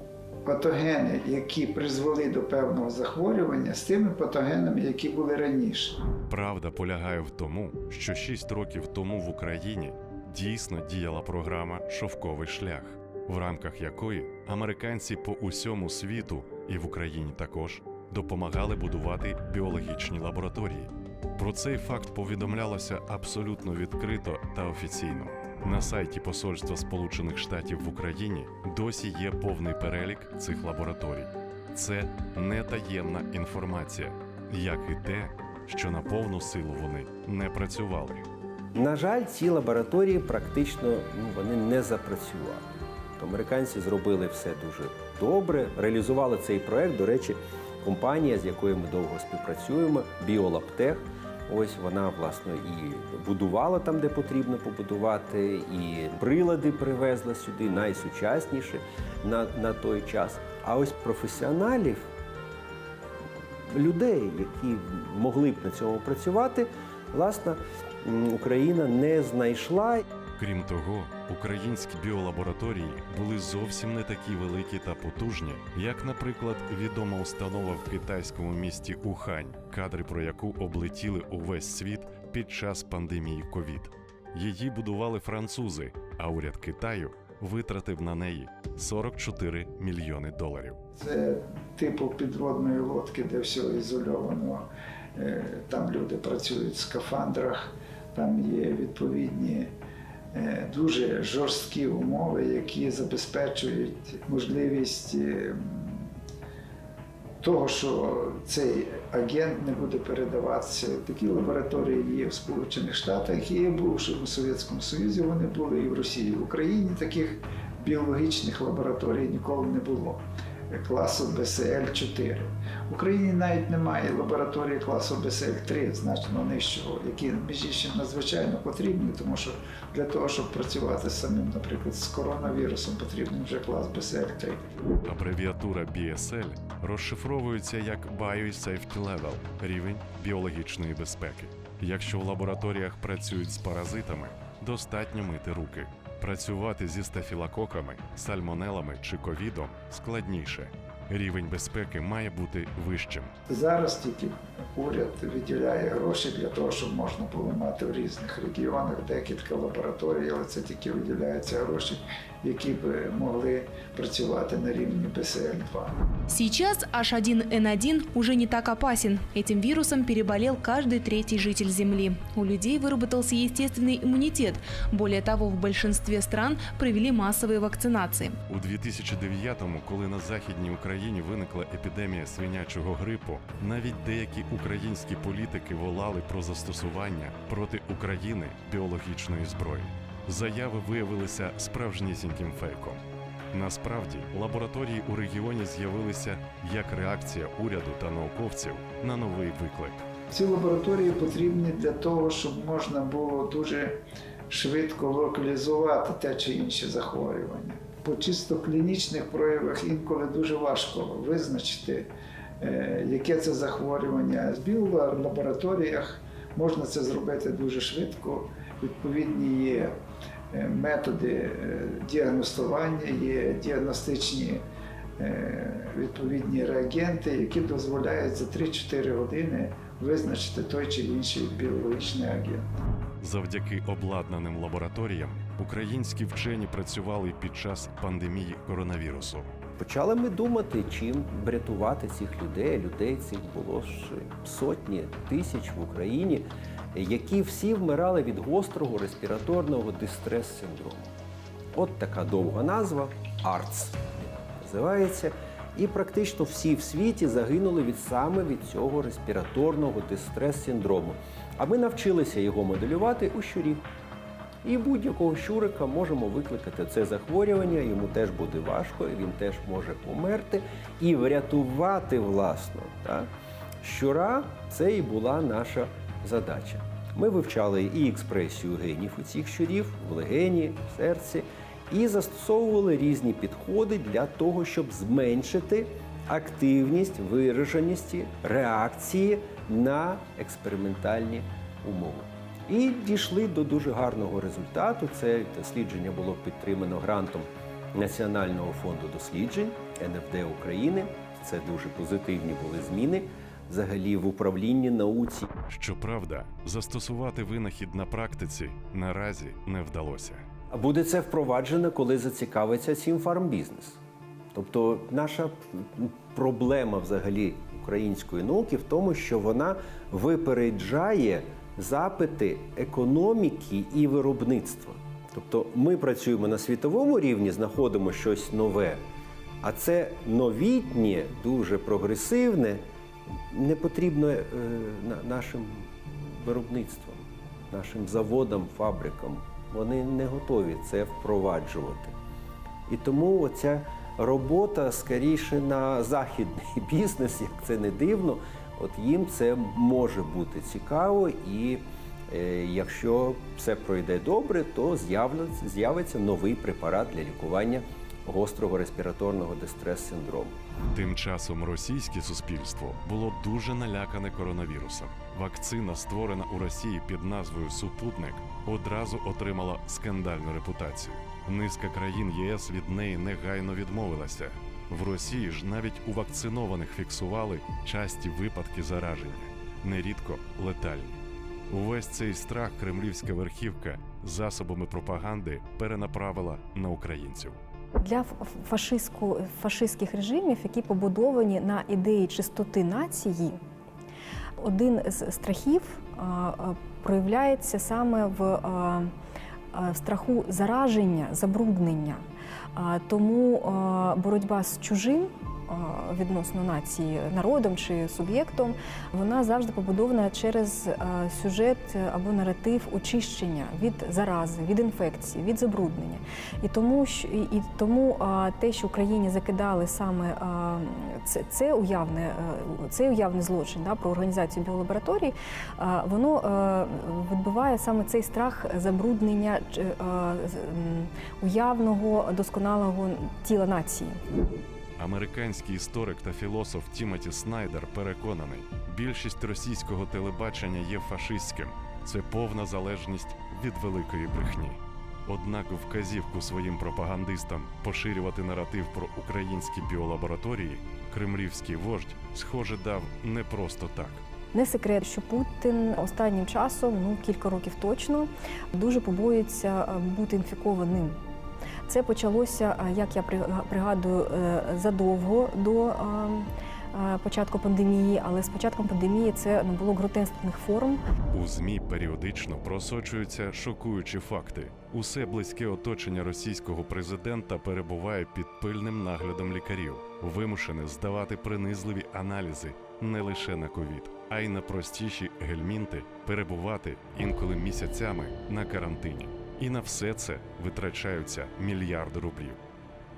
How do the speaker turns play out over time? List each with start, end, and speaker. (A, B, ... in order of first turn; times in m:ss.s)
0:00.4-0:06.0 A
0:06.3-0:38.3 B
0:38.7-1:02.1 C
1:03.7-1:10.0 C
1:10.4-1:30.8 B
1:31.0-1:39.7 A
1:40.3-1:46.0 A
1:47.4-2:14.7 A
2:15.0-2:33.3 B
2:33.5-2:46.0 A
2:46.3-2:58.4 D
2:58.5-3:13.0 B
3:13.5-3:20.1 B
3:20.3-3:32.1 A
3:32.6-3:40.0 A
3:40.5-3:44.6 A
3:45.2-3:52.7 A
3:53.2-3:59.5 B
3:59.8-4:11.2 C
4:11.7-4:23.9 C
4:24.6-5:05.5 C
5:05.7-5:10.4 B
5:10.7-5:14.0 C
5:14.5-5:29.0 C
5:29.6-5:32.9 C
5:33.5-5:42.2 C
5:42.9-6:00.6 C
6:00.9-6:27.6 B
6:28.0-6:33.6 E
6:34.6-6:39.1 E
6:39.7-6:42.2 E
6:42.8-7:14.2 E
7:15.0-7:34.2 B
7:34.5-7:41.2 E
7:41.9-7:51.0 E
7:51.3-8:12.6 B